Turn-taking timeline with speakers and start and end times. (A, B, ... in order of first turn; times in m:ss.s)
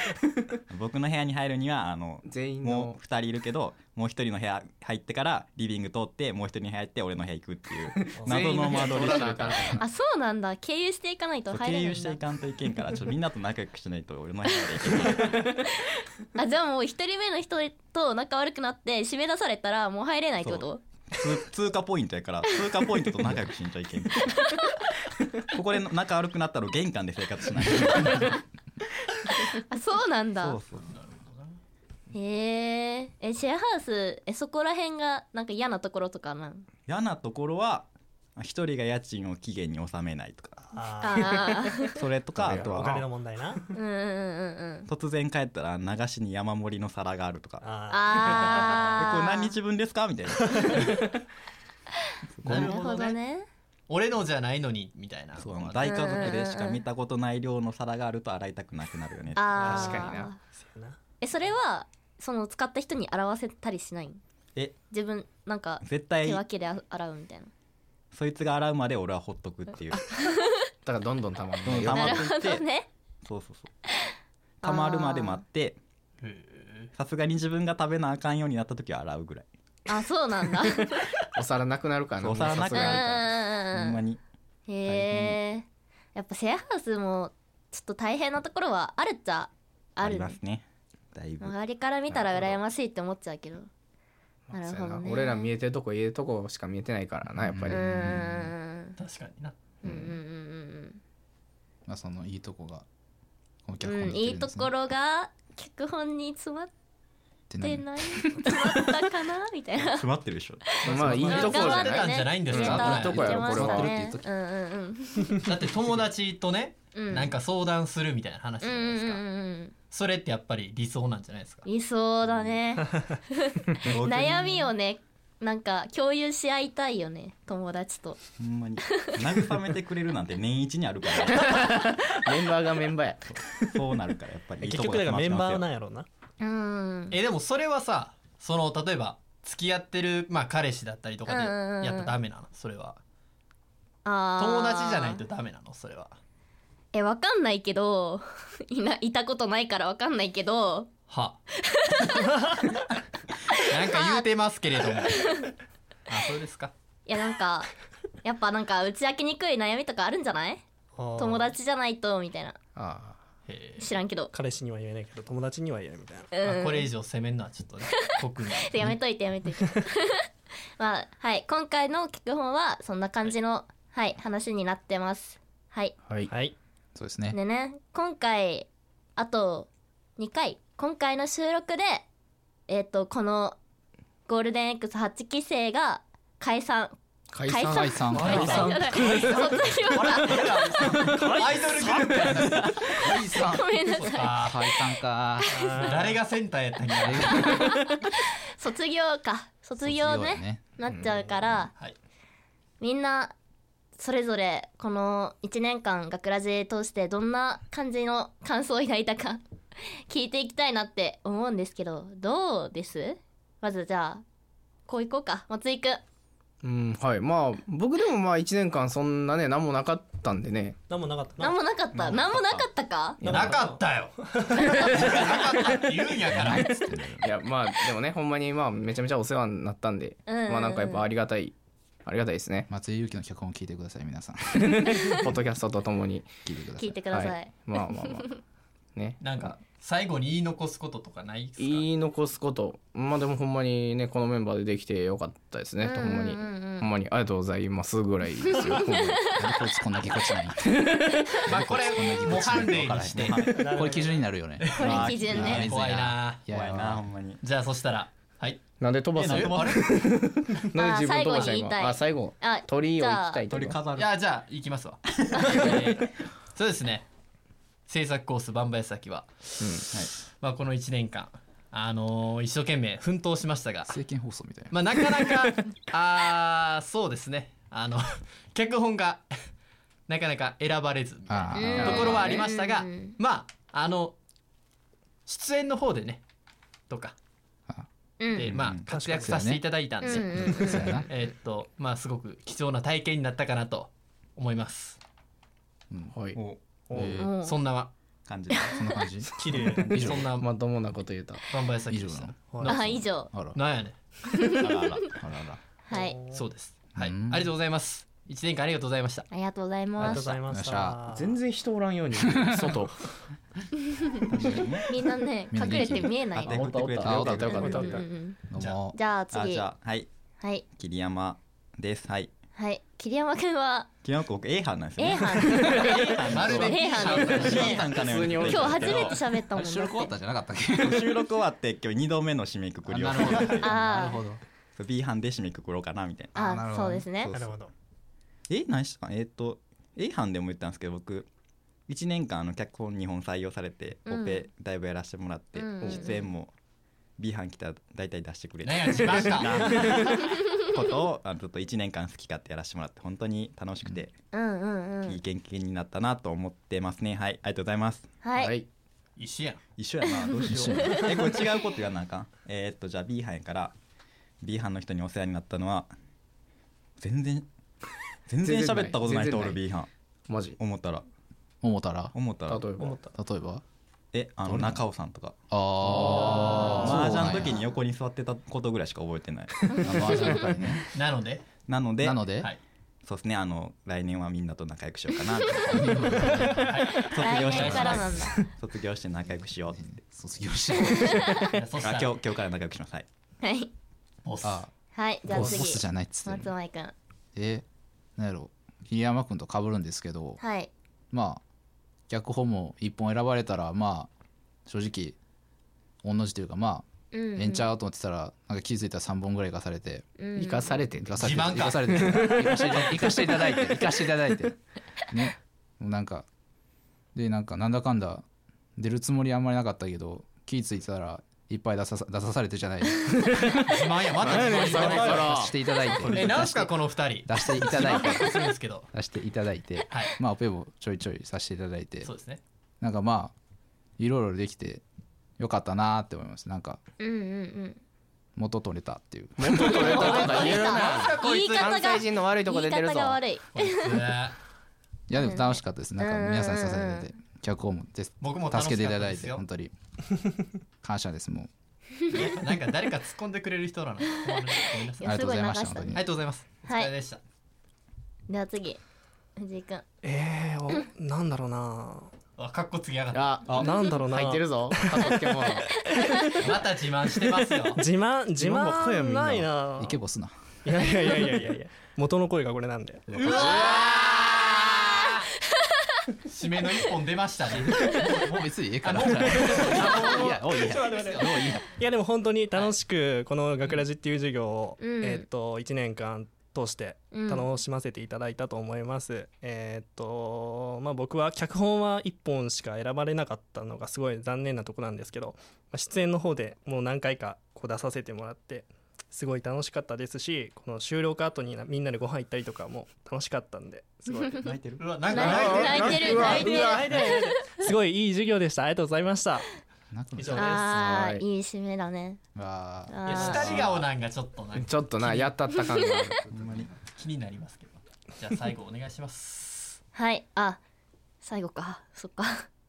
0:00.7-0:09.8 A
0:02.2-0:03.0 B
0:08.0-0:09.8 B
0:08.2-0:08.6 C
0:09.0-0:09.2 D
0:09.8-0:12.2 D
0:11.5-0:15.4 A
0:14.5-0:20.8 D
0:20.4-0:24.7 A
0:24.2-0:24.7 D
0:25.5-0:28.4 A
0:27.9-0:28.4 D
0:29.3-0:30.6 D
0:30.4-0:30.9 A
0:30.9-0:31.6 E
0:32.1-0:36.7 D
0:36.9-0:40.6 A
0:40.7-0:42.0 C
0:41.0-0:41.9 D
0:41.9-0:43.0 A
0:42.4-0:43.0 B
0:42.6-0:43.7 C
0:43.7-0:44.9 D
0:44.9-0:47.6 A
0:47.6-0:49.0 C
0:47.9-0:49.5 D
0:49.0-0:51.0 A
0:50.4-0:51.1 C
0:52.4-0:52.7 B
0:52.4-0:53.5 D
0:52.5-0:52.8 A
0:52.5-0:52.9 E
0:53.9-0:55.9 E
0:55.4-1:00.1 A
0:55.8-0:56.8 D
0:59.4-1:00.4 D
0:59.5-1:01.0 C
0:59.7-1:00.4 B
1:01.2-1:04.2 D
1:04.9-1:07.5 D
1:05.8-1:06.4 A
1:08.1-1:10.1 A
1:10.1-1:10.6 D
1:10.8-1:12.3 B
1:11.6-1:12.7 A
1:11.9-1:12.9 D
1:13.2-1:13.7 A
1:14.6-1:15.4 D
1:14.6-1:15.8 A
1:16.2-1:16.9 E
1:17.0-1:19.5 A
1:19.9-1:21.0 D
1:21.3-1:23.3 B
1:22.2-1:24.2 A
1:22.7-1:24.0 D
1:24.7-1:30.4 D
1:24.9-1:25.4 A
1:30.0-1:31.5 A
1:31.4-1:33.7 D
1:32.1-1:32.6 B
1:34.5-1:37.8 B
1:34.5-1:35.5 D
1:37.5-1:38.2 F
1:37.7-1:39.0 D
1:39.0-1:39.6 E
1:39.8-1:41.0 D
1:39.8-1:40.2 B
1:41.9-1:42.8 F
1:43.7-1:44.7 F
1:43.8-1:46.7 D
1:47.5-1:48.5 F
1:47.6-1:50.0 D
1:49.8-1:51.2 A
1:50.8-1:53.9 B
1:50.9-1:53.2 E
1:50.9-1:55.3 D
1:52.6-1:54.2 F
1:55.4-1:59.2 E
1:57.0-1:57.3 D
1:58.6-1:59.7 D
1:59.9-2:01.7 E
2:01.7-2:08.2 D
2:03.9-2:04.7 A
2:08.4-2:11.8 A
2:11.3-2:13.8 B
2:13.7-2:15.7 A
2:14.6-2:16.1 C
2:16.4-2:17.2 D
2:17.1-2:23.0 E
2:21.3-2:22.1 D
2:24.0-2:25.2 D
2:24.4-2:26.2 E
2:26.9-2:30.9 D
2:31.1-2:31.4 E
2:31.5-2:32.3 D
2:33.5-2:34.3 D
2:33.7-2:35.3 E
2:35.2-2:35.5 D
2:36.1-2:36.7 E
2:37.1-2:37.7 D
2:38.2-2:40.6 D
2:41.0-2:41.5 C
2:41.2-2:42.6 D
2:42.8-2:43.2 B
2:43.5-2:43.9 E
2:43.8-2:44.3 D
2:44.3-2:46.3 C
2:46.3-2:46.9 D
2:46.4-2:48.8 E
2:48.6-2:50.3 D
2:50.8-2:55.9 D
2:56.3-2:56.6 C
2:57.0-2:57.4 F
2:57.3-3:02.1 D
3:02.7-3:03.6 D
3:04.3-3:10.6 D
3:07.3-3:09.5 B
3:07.7-3:08.8 F
3:08.2-3:12.6 E
3:11.0-3:12.4 C
3:11.1-3:15.7 F
3:13.4-3:14.5 D
3:13.8-3:14.6 E
3:15.5-3:16.2 C
3:15.8-3:17.6 E
3:17.0-3:17.8 F
3:17.3-3:21.7 D
3:17.6-3:18.0 C
3:19.8-3:20.6 F
3:20.9-3:21.1 B
3:22.8-3:23.3 D
3:24.0-3:29.4 D
3:30.1-3:34.2 D
3:34.9-3:36.0 D
3:36.6-3:40.8 B
3:40.9-3:41.6 C
3:41.4-3:43.2 D
3:41.9-3:42.7 A
3:43.2-3:43.7 B
3:43.2-3:45.2 C
3:43.3-3:46.8 E
3:44.6-3:44.9 D
3:46.3-3:47.3 F
3:47.2-3:51.5 B
3:50.3-3:51.1 D
3:52.0-3:52.7 B
3:52.7-3:55.4 F
3:54.6-3:56.3 B
3:56.4-3:57.0 F
3:56.8-3:57.5 D
3:57.1-3:58.4 B
3:59.0-3:59.2 B
3:59.2-4:01.9 E
4:01.6-4:09.4 B
4:05.8-4:06.9 D
4:08.5-4:09.0 D
4:09.3-4:17.0 F
4:11.4-4:13.5 E
4:13.1-4:13.9 A
4:13.6-4:14.3 C
4:14.6-4:16.4 E
4:14.7-4:15.6 D
4:14.8-4:17.4 A
4:17.4-4:18.6 E
4:18.8-4:23.8 B
4:19.2-4:19.8 A
4:19.3-4:20.0 E
4:20.8-4:23.4 D
4:23.5-4:24.1 A
4:24.0-4:27.1 E
4:25.2-4:25.8 A
4:27.9-4:29.8 E
4:29.6-4:29.9 B
4:30.4-4:34.0 E
4:33.9-4:34.7 F
4:34.7-4:39.3 E
4:40.1-4:44.2 E
4:41.3-4:42.4 F
4:41.6-4:43.2 D
4:41.8-4:42.2 B
4:45.3-4:46.2 E
4:46.9-4:47.2 E
4:48.2-4:48.5 D
4:48.3-4:55.0 E
4:48.5-4:48.9 A
4:48.9-4:49.5 C
4:49.1-4:51.1 F
4:50.0-4:51.0 D
4:56.1-4:56.4 B
4:56.4-4:56.6 A
4:56.9-4:57.3 C
4:56.9-4:57.3 F
4:57.2-4:57.6 D
4:57.4-4:57.9 E
4:58.3-4:58.8 A
4:58.5-4:59.0 D
4:58.7-5:00.3 F
4:59.4-5:00.0 C
4:59.5-5:01.4 B
4:59.9-5:00.5 E
5:01.5-5:02.4 E
5:01.9-5:03.6 F
5:02.5-5:02.8 C
5:02.6-5:03.3 D
5:03.5-5:04.0 E
5:04.3-5:05.0 D
5:04.6-5:05.2 A
5:05.2-5:05.6 F
5:05.9-5:06.2 D
5:05.9-5:06.4 C
5:06.3-5:09.3 E
5:07.0-5:07.5 F
5:09.3-5:10.3 D
5:10.0-5:11.4 C
5:10.5-5:11.0 F
5:11.1-5:13.0 B
5:12.2-5:12.8 F
5:14.3-5:14.9 A
5:14.3-5:14.8 F
5:14.9-5:16.6 D
5:15.5-5:16.2 F
5:16.4-5:18.0 A
5:16.5-5:18.1 B
5:17.0-5:19.0 F
5:17.5-5:18.4 D
5:18.9-5:19.7 D
5:19.3-5:20.1 A
5:20.7-5:22.3 A
5:22.6-5:23.9 D
5:24.0-5:29.2 A
5:25.0-5:27.8 D
5:25.7-5:27.9 E
5:27.0-5:27.5 F
5:27.4-5:29.2 B
5:28.4-5:30.1 D
5:29.5-5:31.3 F
5:30.8-5:33.7 A
5:32.9-5:34.4 F
5:33.6-5:34.2 D
5:34.8-5:36.4 A
5:36.4-5:37.1 F
5:36.4-5:37.3 D
5:37.3-5:37.7 C
5:38.5-5:41.3 A
5:41.9-5:46.5 A
5:44.1-5:44.4 D
5:45.6-5:46.3 D
5:45.8-5:46.2 B
5:47.2-5:54.1 A
5:48.6-5:50.1 E
5:54.3-5:55.2 D
5:55.1-5:58.2 A
5:58.2-5:58.5 D
5:58.4-5:58.7 B
5:59.2-5:59.6 E
5:59.8-6:03.7 A
6:00.5-6:01.1 F
6:04.4-6:05.9 A
6:07.0-6:07.5 A
6:08.3-6:09.9 A
6:08.4-6:09.6 B
6:10.3-6:10.6 B
6:10.6-6:11.0 A
6:11.6-6:12.2 F
6:12.1-6:12.7 A
6:12.5-6:13.0 B
6:12.8-6:13.1 C
6:13.1-6:13.6 F
6:14.1-6:15.4 A
6:14.4-6:14.8 F
6:15.5-6:17.6 F
6:15.9-6:17.3 B
6:16.0-6:20.8 A
6:19.8-6:20.8 F
6:20.9-6:21.5 E
6:21.7-6:22.3 A
6:22.0-6:22.5 F
6:23.0-6:26.4 A
6:25.7-6:26.8 F
6:26.4-6:27.9 E
6:27.0-6:30.0 A
6:27.1-6:28.4 D
6:27.7-6:28.0 F
6:29.7-6:31.5 F
6:30.9-6:31.5 D
6:31.5-6:32.1 E
6:31.8-6:33.0 A
6:33.4-6:33.7 D
6:34.2-6:34.6 E
6:34.4-6:34.7 F
6:34.9-6:36.9 D
6:35.3-6:36.5 F
6:37.4-6:37.6 F
6:38.2-6:40.4 F
6:40.4-6:40.7 D
6:41.1-6:41.4 F
6:42.1-6:44.1 F
6:44.7-6:45.2 F
6:46.0-6:50.1 F
6:47.1-6:47.7 D
6:50.2-6:50.8 D
6:50.4-6:53.0 B
6:51.0-6:54.6 F
6:51.2-6:52.3 E
6:55.1-6:56.3 F
6:57.1-6:58.2 F
6:58.8-7:03.6 F
7:03.3-7:05.6 B
7:03.7-7:05.5 E
7:04.2-7:06.7 F
7:05.9-7:06.4 A
7:06.1-7:08.9 E
7:07.2-7:12.1 F
7:12.0-7:12.4 E
7:12.8-7:13.3 F
7:14.0-7:14.8 F
7:15.4-7:16.8 F
7:17.0-7:17.8 D
7:18.4-7:20.4 F
7:19.4-7:23.2 B
7:19.6-7:24.0 D
7:19.9-7:22.0 E
7:23.6-7:24.4 E
7:25.1-7:29.7 F
7:25.2-7:27.1 D
7:28.2-7:29.4 E
7:30.8-7:31.5 F
7:32.1-7:35.2 E
7:35.0-7:36.0 D
7:35.0-7:36.0 F
7:36.0-7:37.2 E
7:36.7-7:36.9 D
7:38.3-7:38.8 D
7:39.4-7:39.8 D
7:40.0-7:42.1 C
7:42.4-7:43.4 E
7:43.1-7:45.9 B
7:43.5-7:46.4 C
7:46.4-7:47.8 E
7:47.8-7:50.0 C
7:48.4-7:49.5 B
7:49.8-7:50.3 F
7:50.6-7:53.9 C
7:53.1-7:53.6 F
7:53.3-7:53.8 D
7:53.4-7:53.8 B
7:56.3-7:58.0 E
7:57.9-8:01.7 F
7:58.8-8:01.0 E
7:59.3-8:24.5 C
8:04.8-8:05.2 D
8:07.1-8:07.5 D
8:24.4-8:25.0 A
8:24.8-8:26.8 E
8:25.1-8:27.3 D
8:25.1-8:27.1 B
8:25.9-8:29.5 C
8:29.9-8:31.0 F
8:30.2-8:30.7 C
8:30.4-8:32.2 D
8:30.7-8:31.2 B
8:32.4-8:33.8 F
8:32.9-8:33.5 D
8:33.1-8:35.4 E
8:33.1-8:33.5 C
8:34.6-8:36.2 B
8:36.3-8:36.7 F
8:36.3-8:36.7 A
8:37.0-8:39.8 E
8:39.9-8:40.6 D
8:41.2-8:42.5 D